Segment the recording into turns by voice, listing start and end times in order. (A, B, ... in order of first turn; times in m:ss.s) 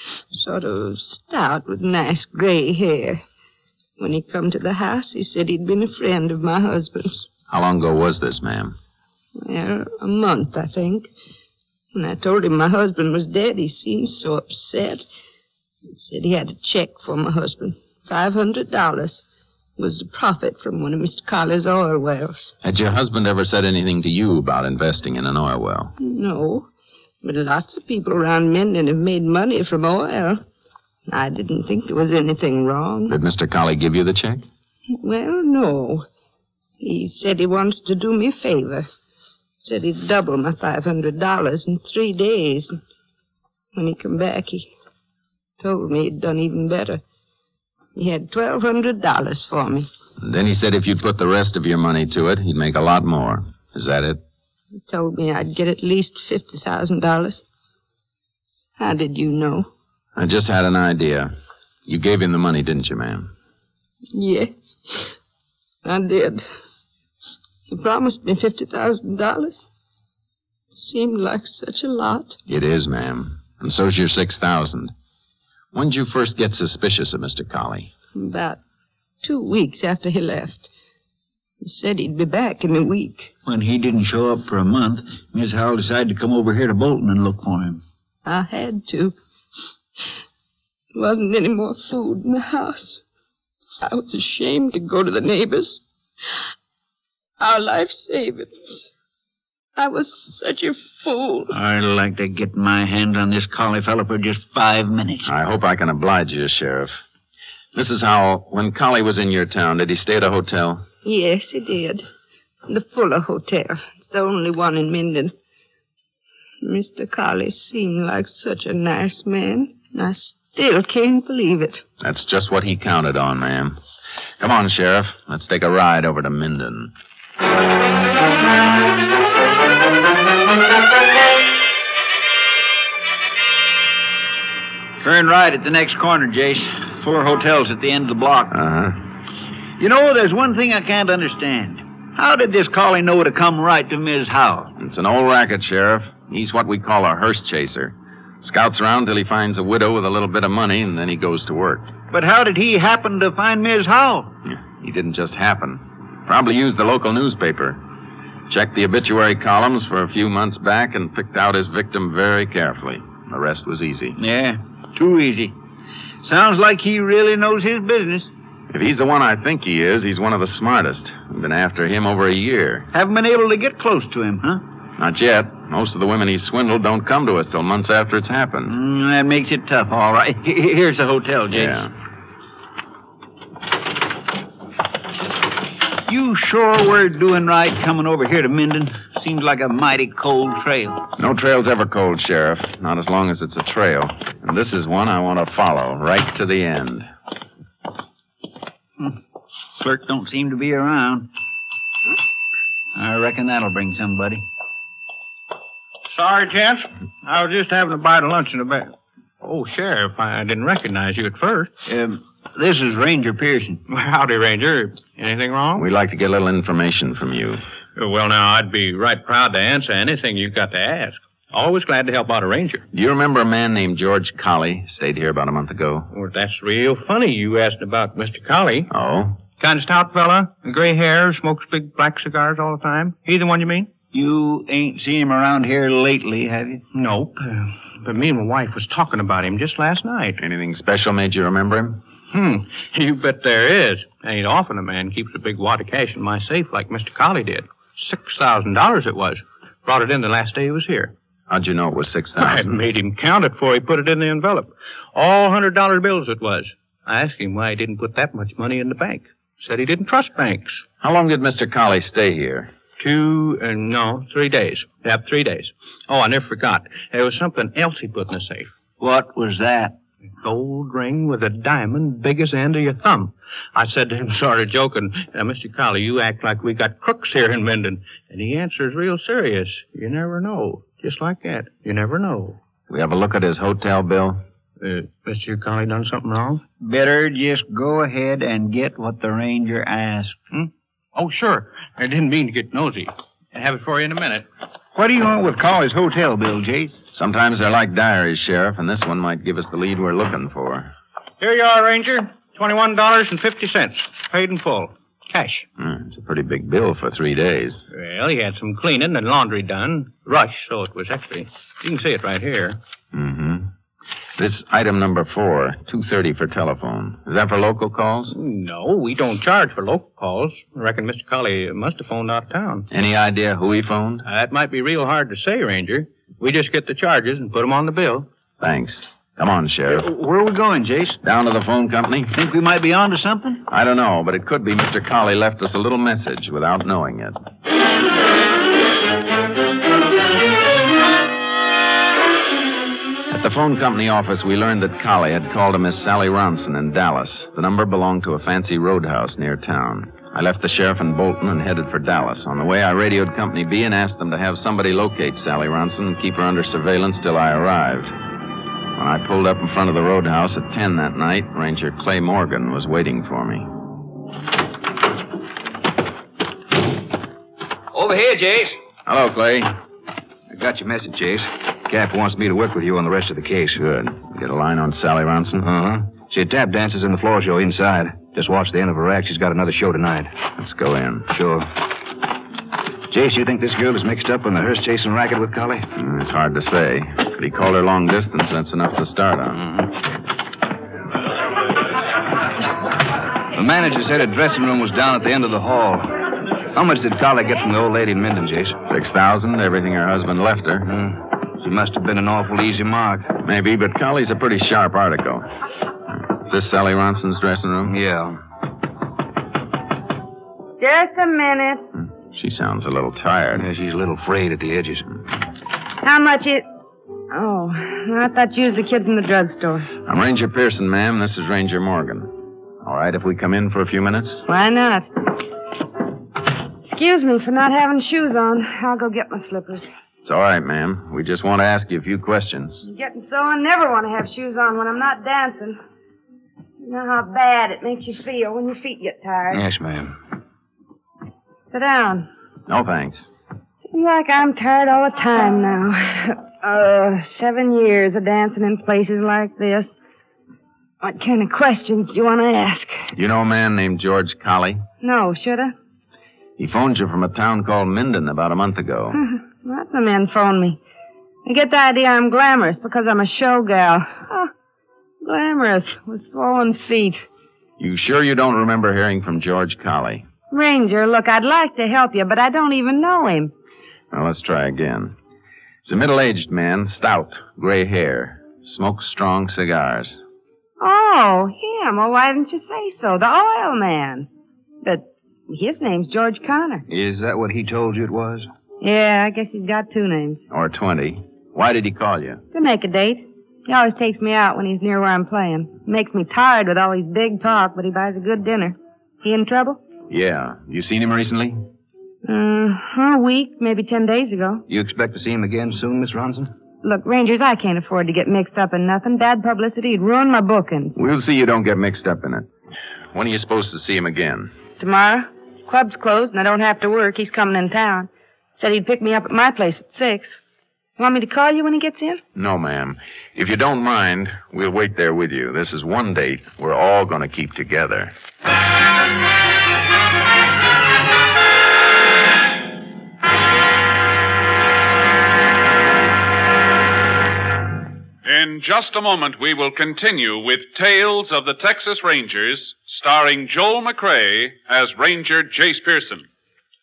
0:00.3-0:03.2 A
0:04.0-0:07.2 A
0:07.5-0:08.8 B
0:09.4-0:11.1 A
0:11.9-0:15.0 A
0:15.9-0:19.2 A
0:19.8-0:22.5 A
0:22.6-0:25.9 B
0:26.0-0:26.7 A
0:27.2-0:30.4 A
0:31.1-0:33.1 A
0:33.1-0:34.4 B
0:35.0-0:36.0 A
0:36.8-0:38.8 A
0:39.6-0:42.7 A
0:43.7-0:44.7 A
0:45.6-0:47.0 A
0:48.0-0:49.9 A
0:50.2-0:54.2 B
0:54.9-0:57.4 A
0:58.8-0:59.7 A
1:00.2-1:01.3 B
1:01.8-1:03.3 B
1:04.1-1:04.5 A
1:05.8-1:06.4 A
1:07.7-1:09.7 A
1:10.7-1:12.4 A
1:12.5-1:14.9 B
1:15.7-1:17.9 B
1:18.2-1:18.6 A
1:19.2-1:20.7 A
1:21.6-1:23.3 A
1:23.4-1:27.8 C
1:28.2-1:29.2 A
1:30.9-1:33.0 A
1:33.8-1:35.8 A
1:37.4-1:38.8 A
1:39.8-1:41.5 A
1:41.5-1:45.3 C
1:45.2-1:47.0 B
1:47.7-1:50.8 B
1:51.0-1:52.0 A
1:52.7-1:55.3 A
1:56.6-2:01.8 A
2:02.0-2:03.8 B
2:04.4-2:06.9 B
2:15.0-2:18.5 C
2:18.5-2:19.1 B
2:19.8-2:24.7 C
2:24.8-2:31.9 B
2:32.1-2:34.3 C
2:34.4-2:37.8 B
2:38.5-2:44.2 B
2:44.2-2:45.6 C
2:46.2-2:48.3 C
2:48.7-2:52.9 B
2:52.9-2:54.6 C
2:55.0-2:58.7 B
2:58.7-3:01.8 C
3:01.5-3:01.9 B
3:06.0-3:11.0 C
3:11.2-3:17.1 B
3:19.8-3:21.3 C
3:22.9-3:24.5 C
3:26.1-3:31.7 D
3:31.8-3:33.8 C
3:33.9-3:35.9 D
3:35.7-3:37.6 B
3:38.0-3:42.8 D
3:42.9-3:46.1 B
3:46.1-3:48.9 D
3:48.9-3:49.4 B
3:49.6-3:53.9 D
3:54.1-3:56.8 C
3:56.9-4:00.4 D
4:00.4-4:02.0 B
4:02.3-4:11.1 D
4:11.5-4:12.7 B
4:12.4-4:20.8 D
4:21.0-4:22.7 B
4:23.0-4:28.7 D
4:29.0-4:30.0 C
4:30.4-4:42.6 D
4:42.9-4:44.4 B
4:44.8-4:46.6 D
4:46.8-4:50.4 C
4:50.5-4:54.4 D
4:54.9-4:56.9 C
4:57.1-5:00.9 B
5:01.4-5:05.6 D
5:05.8-5:07.8 B
5:07.9-5:12.8 D
5:13.1-5:13.7 B
5:14.4-5:18.3 B
5:18.3-5:22.9 D
5:22.9-5:24.2 B
5:24.2-5:28.3 D
5:28.6-5:30.1 B
5:29.9-5:31.2 C
5:31.2-5:32.3 B
5:32.3-5:33.6 C
5:33.7-5:37.4 B
5:43.3-5:58.1 B
5:59.0-6:03.7 B
6:07.9-6:08.8 E
6:09.0-6:09.7 B
6:10.5-6:13.8 E
6:13.8-6:15.7 B
6:15.6-6:20.3 E
6:20.6-6:21.3 B
6:21.3-6:21.8 E
6:23.1-6:25.8 E
6:26.0-6:29.6 B
6:29.6-6:29.8 E
6:33.5-6:36.1 E
6:36.7-6:38.8 E
6:38.9-6:40.9 B
6:40.9-6:43.3 E
6:43.4-6:45.5 B
6:46.4-6:48.0 B
6:47.8-6:48.4 E
6:50.8-6:51.8 F
6:52.3-6:53.7 B
6:53.5-6:55.0 E
6:56.0-6:56.6 F
6:57.3-6:59.9 F
7:00.0-7:04.4 B
7:04.5-7:05.1 F
7:06.9-7:09.9 F
7:10.2-7:12.8 B
7:12.8-7:15.8 F
7:16.8-7:19.6 F
7:19.5-7:20.1 E
7:21.7-7:22.3 F
7:22.7-7:23.3 B
7:23.9-7:29.9 F
7:31.0-7:33.0 F
7:33.1-7:34.8 B
7:35.0-7:35.7 F
7:36.6-7:39.2 B
7:39.1-7:40.8 F
7:41.4-7:44.5 F
7:45.2-7:47.2 F
7:47.8-7:50.2 B
7:50.5-7:53.5 F
7:54.1-7:55.2 B
7:55.8-8:00.2 B
8:00.8-8:04.3 F
8:04.8-8:06.8 F
8:06.9-8:08.5 E
8:08.8-8:10.4 F
8:10.5-8:12.4 B
8:12.5-8:19.8 F
8:20.1-8:21.6 B
8:22.2-8:24.6 F
8:24.7-8:26.5 E
8:26.8-8:31.0 F
8:31.0-8:32.5 B
8:33.1-8:34.5 B
8:34.8-8:40.4 F
8:41.0-8:42.2 F
8:42.3-8:48.1 B
8:58.2-9:06.2 G